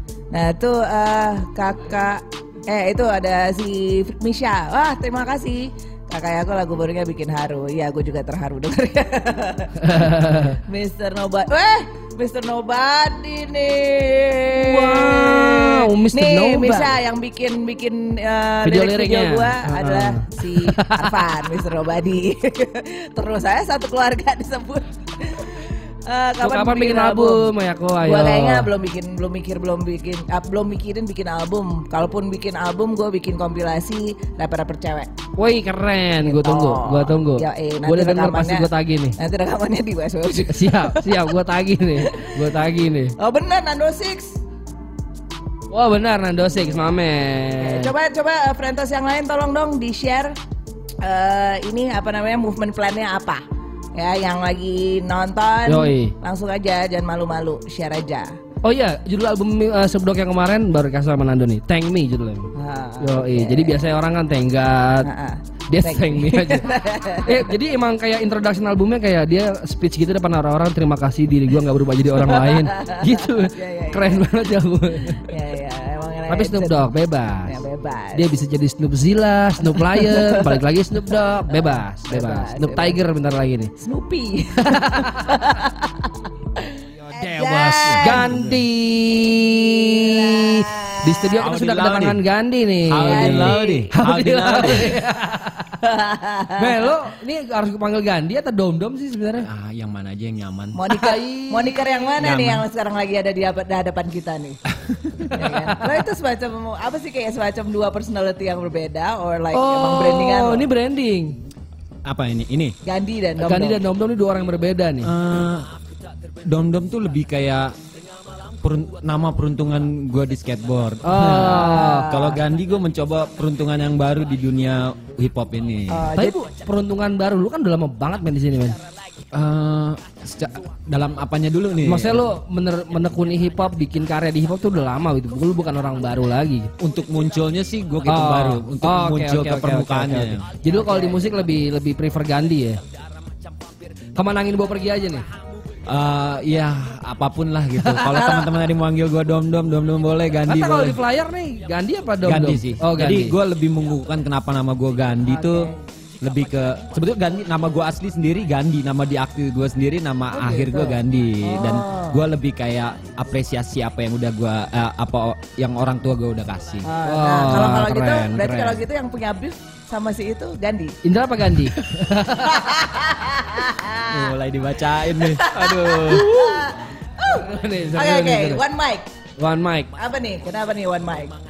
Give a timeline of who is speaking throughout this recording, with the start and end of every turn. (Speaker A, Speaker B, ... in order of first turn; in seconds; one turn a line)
Speaker A: 0.3-10.1
Speaker B: 9.8-10.6
Speaker A: 10.7-27.5
Speaker B: 14.5-16.9
Speaker B: 18.6-21.2
Speaker B: 26.4-28.7
Speaker A: 28.0-35.1
Speaker B: 35.4-39.1
Speaker A: 36.2-41.2
Speaker B: 40.5-43.1
Speaker A: 42.0-42.5
Speaker A: 43.2-44.4
Speaker B: 45.7-47.9
Speaker A: 47.6-50.4
Speaker A: 51.0-53.4
Speaker A: 53.9-58.4
Speaker B: 55.7-56.1
Speaker B: 58.6-62.5
Speaker A: 62.5-63.8
Speaker B: 63.0-65.1
Speaker A: 65.0-67.5
Speaker B: 65.7-66.7
Speaker B: 67.2-75.2
Speaker A: 72.2-74.2
Speaker A: 75.2-76.9
Speaker B: 76.3-77.6
Speaker A: 77.5-78.3
Speaker B: 78.1-83.7
Speaker A: 79.9-80.6
Speaker A: 81.5-83.0
Speaker A: 83.8-88.4
Speaker B: 84.6-85.3
Speaker B: 87.0-95.8
Speaker C: 87.8-88.6
Speaker A: 89.7-91.0
Speaker C: 91.4-92.2
Speaker C: 92.9-94.9
Speaker A: 93.1-93.9
Speaker A: 95.8-96.7
Speaker B: 96.6-99.5
Speaker C: 99.4-100.8
Speaker A: 100.8-104.6
Speaker B: 100.9-102.0
Speaker C: 102.2-102.6
Speaker C: 104.9-105.2
Speaker A: 105.3-110.7
Speaker B: 109.5-111.4
Speaker C: 112.0-112.7
Speaker A: 112.8-113.8
Speaker B: 113.4-115.1
Speaker C: 115.0-115.7
Speaker C: 116.4-117.7
Speaker C: 118.6-126.1
Speaker B: 121.0-122.1
Speaker A: 121.2-122.4
Speaker A: 125.9-126.4
Speaker B: 126.2-128.8
Speaker C: 129.3-132.3
Speaker B: 131.8-136.7
Speaker C: 136.8-140.5
Speaker B: 138.0-142.8
Speaker A: 140.7-141.3
Speaker B: 144.1-145.2
Speaker C: 145.8-151.0
Speaker A: 148.1-148.6
Speaker B: 150.4-153.3
Speaker C: 152.2-166.9
Speaker A: 155.3-155.8
Speaker A: 160.3-162.2
Speaker A: 166.8-170.9
Speaker B: 167.0-168.8
Speaker B: 171.0-172.6
Speaker A: 172.4-174.2
Speaker C: 174.1-175.8
Speaker A: 175.2-179.1
Speaker B: 175.5-176.7
Speaker B: 177.2-178.6
Speaker B: 179.4-179.9
Speaker A: 180.0-181.3